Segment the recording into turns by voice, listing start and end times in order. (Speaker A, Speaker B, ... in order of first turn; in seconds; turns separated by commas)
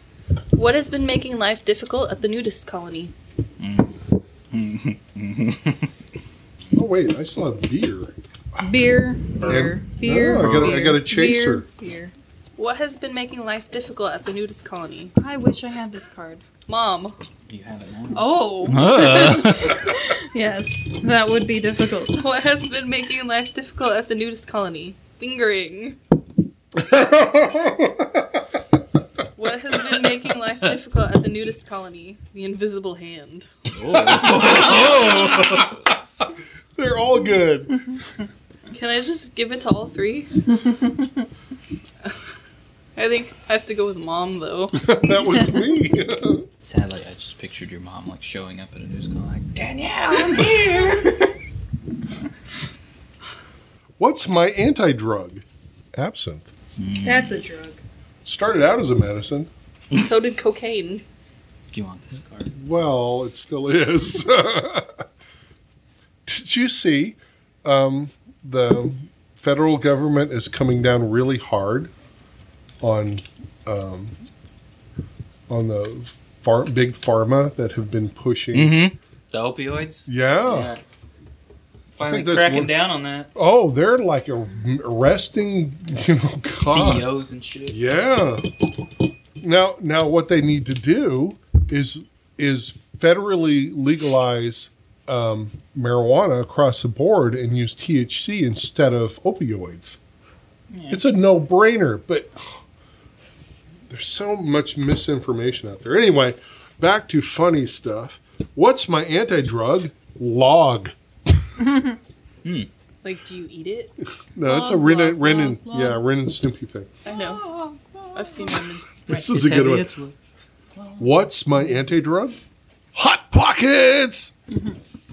Speaker A: 0.5-3.1, Speaker B: 3.6-4.0, Speaker B: 4.5-5.9, Speaker C: 6.7-8.1, Speaker D: 8.6-12.1, Speaker C: 9.5-11.7, Speaker B: 10.4-10.8, Speaker A: 12.6-15.1, Speaker D: 15.2-16.4, Speaker A: 16.7-17.1, Speaker B: 17.5-19.8, Speaker D: 18.1-22.2, Speaker A: 22.1-26.0, Speaker C: 26.7-28.4, Speaker A: 29.4-33.5, Speaker B: 33.7-35.8, Speaker C: 33.9-35.8, Speaker C: 36.8-37.8, Speaker A: 38.7-40.3, Speaker A: 43.0-44.8, Speaker C: 44.7-46.5, Speaker B: 46.6-51.3, Speaker C: 54.0-55.4, Speaker C: 55.9-56.5, Speaker B: 56.8-57.4, Speaker D: 57.1-57.7, Speaker C: 58.2-59.5, Speaker A: 59.9-61.0, Speaker B: 61.7-62.5, Speaker C: 62.5-65.0, Speaker C: 66.2-71.9, Speaker C: 72.8-74.1, Speaker C: 75.5-78.8, Speaker B: 78.5-80.8, Speaker C: 80.1-80.7, Speaker B: 81.9-83.3, Speaker C: 82.0-82.7, Speaker C: 83.3-87.1, Speaker B: 86.6-87.8, Speaker C: 87.7-88.4, Speaker C: 89.4-100.0, Speaker B: 100.7-101.0, Speaker C: 100.9-102.6, Speaker C: 103.9-110.9, Speaker B: 112.4-112.7, Speaker A: 113.0-113.9, Speaker C: 114.3-116.9, Speaker D: 114.4-116.0, Speaker A: 117.0-117.4, Speaker A: 118.1-119.2, Speaker C: 119.1-119.9, Speaker B: 119.1-120.1, Speaker B: 120.7-121.1, Speaker C: 121.0-122.4, Speaker C: 122.9-124.3